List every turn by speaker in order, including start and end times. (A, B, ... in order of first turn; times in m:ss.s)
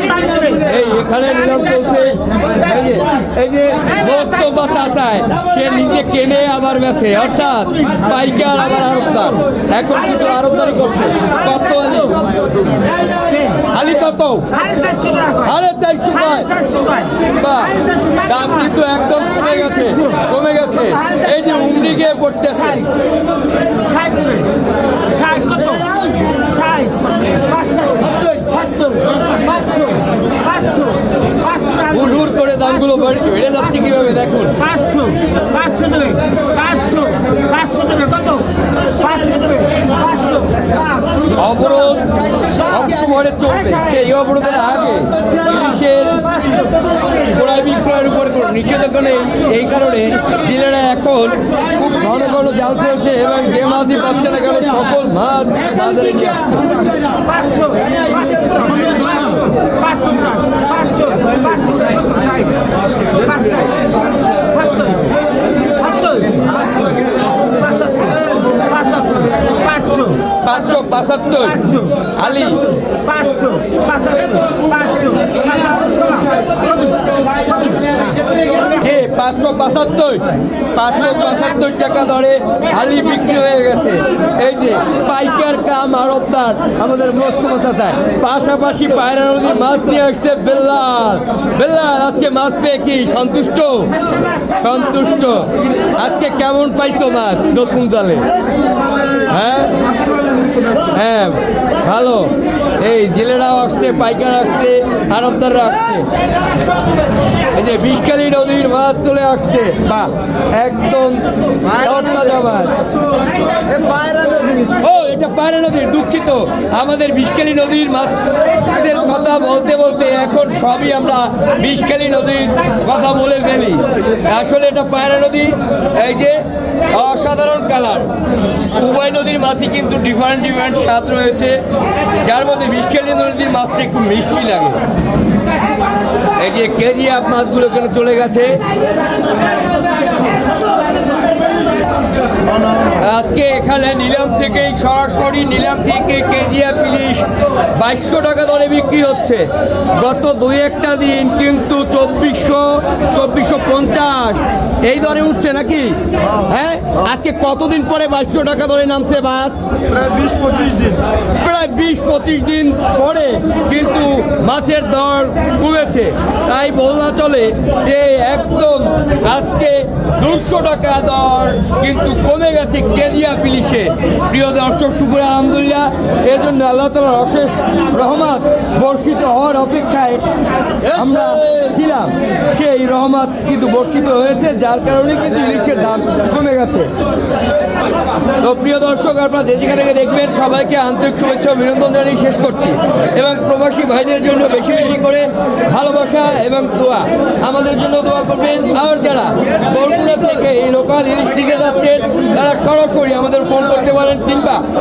0:00.4-0:12.3 A
0:13.7-0:14.8 A
0:14.8-0:15.2 B
0:15.3-0:16.6 A
0:16.7-0:17.1 B
0:17.3-0:22.9 A
0:23.9-0:24.5 B
0:25.1-0:31.6 B
0:31.7-0:34.7 A
0:34.8-0:41.1 B
0:41.3-0:46.6 A
0:47.1-0:56.7 A
0:57.3-1:03.7 B
1:04.6-1:05.1 B
1:05.8-1:06.5 B
1:07.5-1:10.3 B
1:10.4-1:12.7 A
1:13.0-1:16.4 B
1:18.6-1:33.9 A
1:34.6-1:38.3 A
1:39.3-1:39.8 A
1:40.9-1:46.1 A
1:47.5-1:52.8 A
1:53.9-1:54.5 B
1:54.7-2:06.4 A
2:06.9-2:08.1 A
2:08.7-2:11.6 A
2:12.2-2:14.8 A
2:16.4-2:18.6 A
2:23.0-2:39.6 A
2:40.0-2:41.0 B
2:41.4-3:00.2 A
3:00.8-3:06.9 A
3:08.4-3:24.6 A